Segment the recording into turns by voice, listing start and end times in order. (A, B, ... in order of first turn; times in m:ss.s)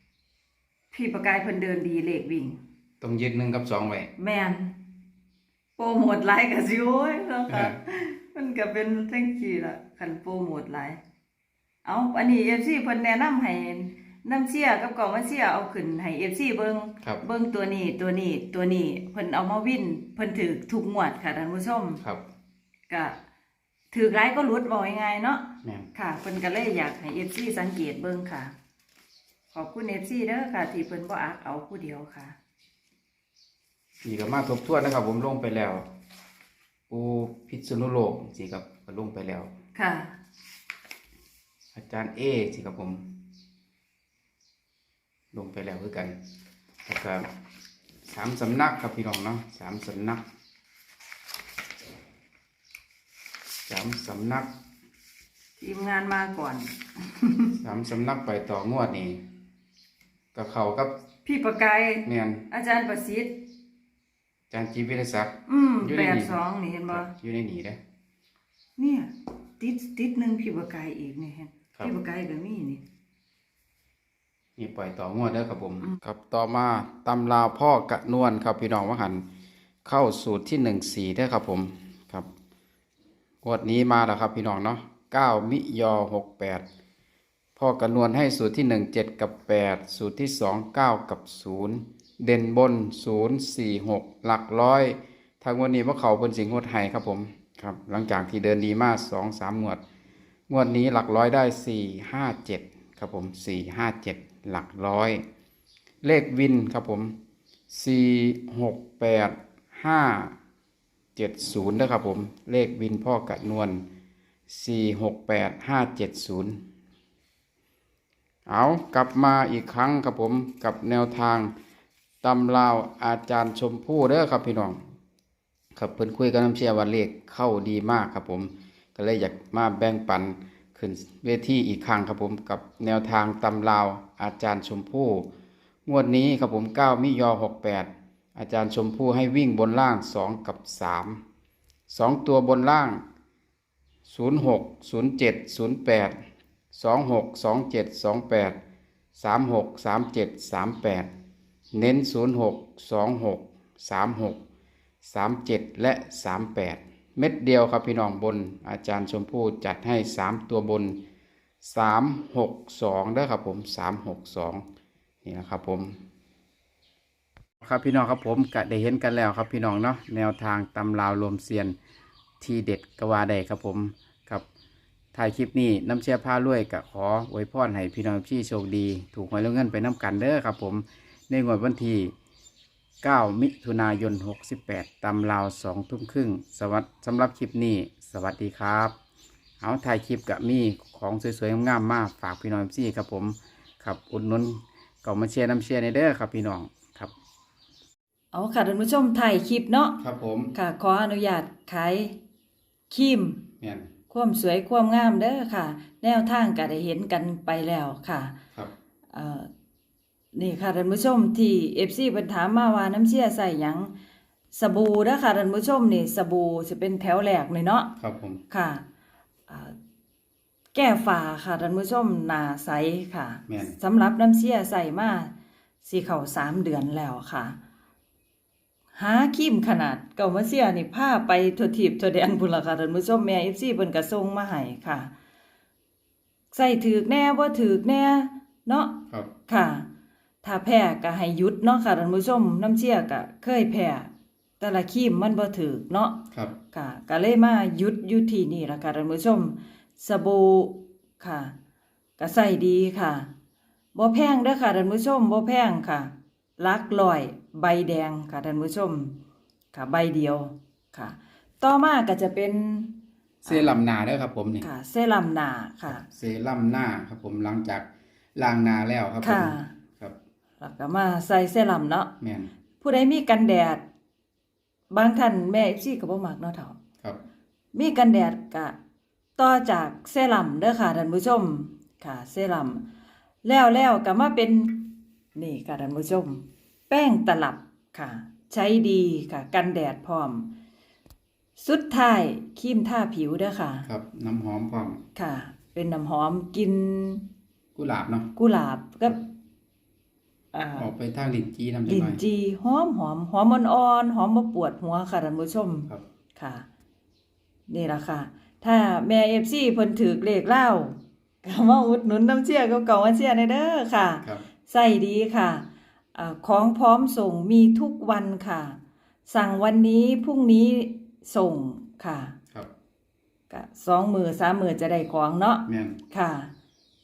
0:00.9-0:02.6 A
0:03.0-0:04.1 B
0:04.2-0:04.8 A
0:05.8-0:11.0 A
0:07.5-0:07.8 B
0:11.8-0:22.0 A
0:22.9-0:23.2 A
0:23.9-0:28.6 A
0:25.6-0:25.9 B
0:29.5-0:32.4 A
0:34.0-0:35.9 B
0:36.9-0:39.5 B
0:39.8-0:40.2 A
0:41.7-0:43.2 B
0:45.3-0:46.2 B
0:46.8-0:47.3 B
0:48.0-0:50.2 B
0:53.7-0:54.5 B
0:55.6-0:57.6 A
0:57.6-0:59.2 B
1:00.3-1:00.9 B
1:01.2-1:03.5 A
1:02.0-1:02.5 B
1:04.5-1:06.4 B
1:05.5-1:07.1 A
1:06.9-1:07.8 B
1:08.8-1:12.8 A
1:14.6-1:19.2 B
1:19.8-1:22.3 B
1:23.4-1:26.6 B
1:27.6-1:39.8 B
1:40.5-1:45.2 B
1:46.0-1:47.2 B
1:47.7-1:50.4 B
1:51.2-1:53.8 B
1:54.5-1:56.6 B
1:58.5-2:01.5 B
2:02.2-2:04.8 B
2:05.8-2:15.3 B
2:15.9-2:21.2 B
2:21.9-2:23.0 B
2:24.1-2:26.2 B
2:26.7-2:28.6 B
2:29.2-2:31.1 B
2:31.7-2:34.4 B
2:35.0-2:41.0 B
2:41.6-2:44.6 B
2:45.2-2:46.0 B
2:47.6-2:51.8 B
2:52.4-2:54.4 B
2:55.1-3:02.1 B
3:03.0-3:09.0 B
3:09.6-3:17.1 B
3:18.3-3:20.0 A
3:20.0-3:20.6 B
3:20.5-3:22.2 A
3:22.9-3:23.4 A
3:23.6-3:23.9 B
3:24.1-3:28.4 A
3:29.1-3:29.5 A
3:30.3-3:33.9 A
3:34.5-3:38.0 A
3:38.0-3:38.4 B
3:38.5-3:38.8 A
3:39.5-3:39.8 A
3:40.7-3:45.3 A
3:43.5-3:43.8 B
3:45.8-3:47.6 A
3:49.0-3:55.1 A
3:56.5-3:59.9 A
4:00.4-4:11.6 A
4:12.2-4:13.3 A
4:14.0-4:19.2 A
4:19.7-4:23.8 A
4:23.4-4:24.7 B
4:24.6-4:26.0 A
4:25.9-4:30.2 B
4:29.2-4:29.7 A
4:30.6-4:32.1 A
4:32.2-4:32.5 B
4:32.8-4:33.8 A
4:34.9-4:36.8 A
4:37.7-4:38.8 A
4:39.4-4:42.9 A
4:43.4-4:50.5 A
4:51.6-4:53.9 A
4:53.8-4:55.0 B
4:55.2-4:57.3 A
4:57.8-4:58.3 B
4:58.4-4:59.2 A
5:00.5-5:00.9 A
5:00.7-5:02.2 B
5:01.9-5:06.7 A
5:07.7-5:22.4 A
5:23.5-5:26.5 A
5:25.7-5:26.0 B